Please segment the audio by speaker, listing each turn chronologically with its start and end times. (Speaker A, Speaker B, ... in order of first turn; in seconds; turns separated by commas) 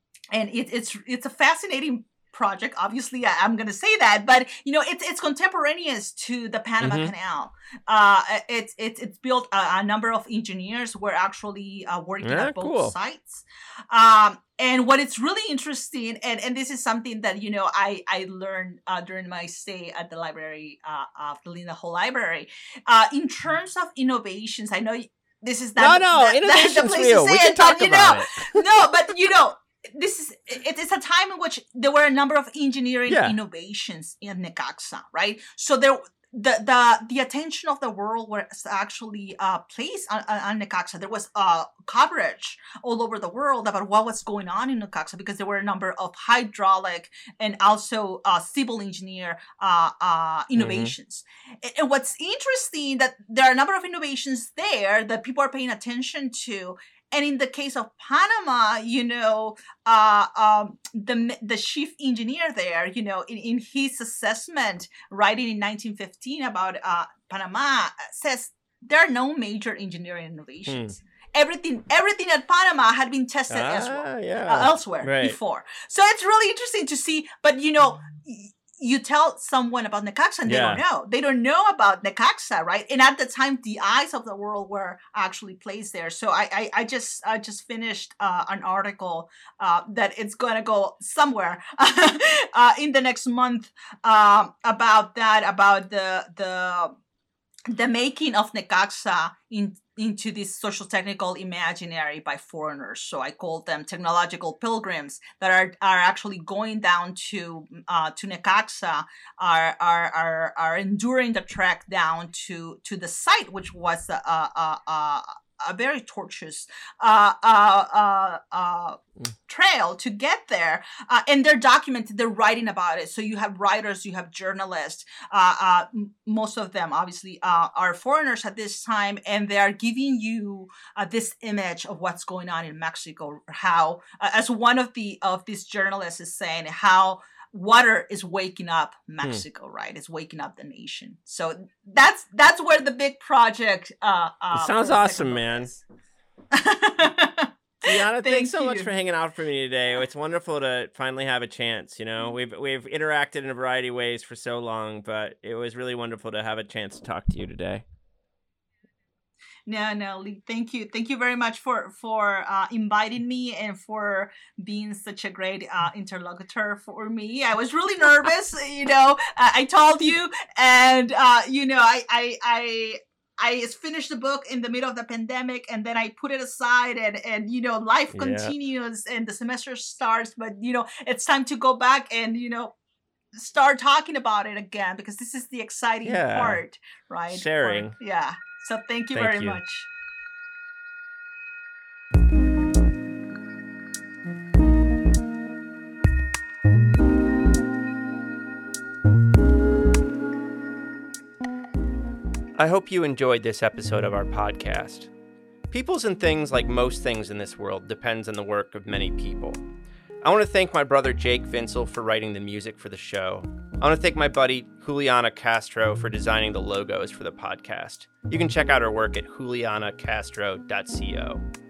Speaker A: 0.3-97.0, Speaker B: 6.8-7.1, Speaker B: 12.2-12.9, Speaker B: 25.8-28.6, Speaker B: 33.1-33.4, Speaker B: 50.6-50.9, Speaker B: 70.7-71.0, Speaker B: 73.5-75.4, Speaker B: 80.5-80.8, Speaker A: 97.7-145.8, Speaker B: 144.5-145.7, Speaker A: 146.5-148.9, Speaker B: 147.8-157.8, Speaker A: 159.7-182.7, Speaker B: 178.1-178.5, Speaker A: 183.3-189.9, Speaker B: 186.1-186.6, Speaker B: 187.3-188.0, Speaker B: 189.1-189.6, Speaker C: 202.6-205.0, Speaker B: 204.0-205.1, Speaker C: 205.7-209.6, Speaker C: 210.2-221.4, Speaker B: 210.4-210.9, Speaker B: 213.8-214.1, Speaker B: 217.2-219.8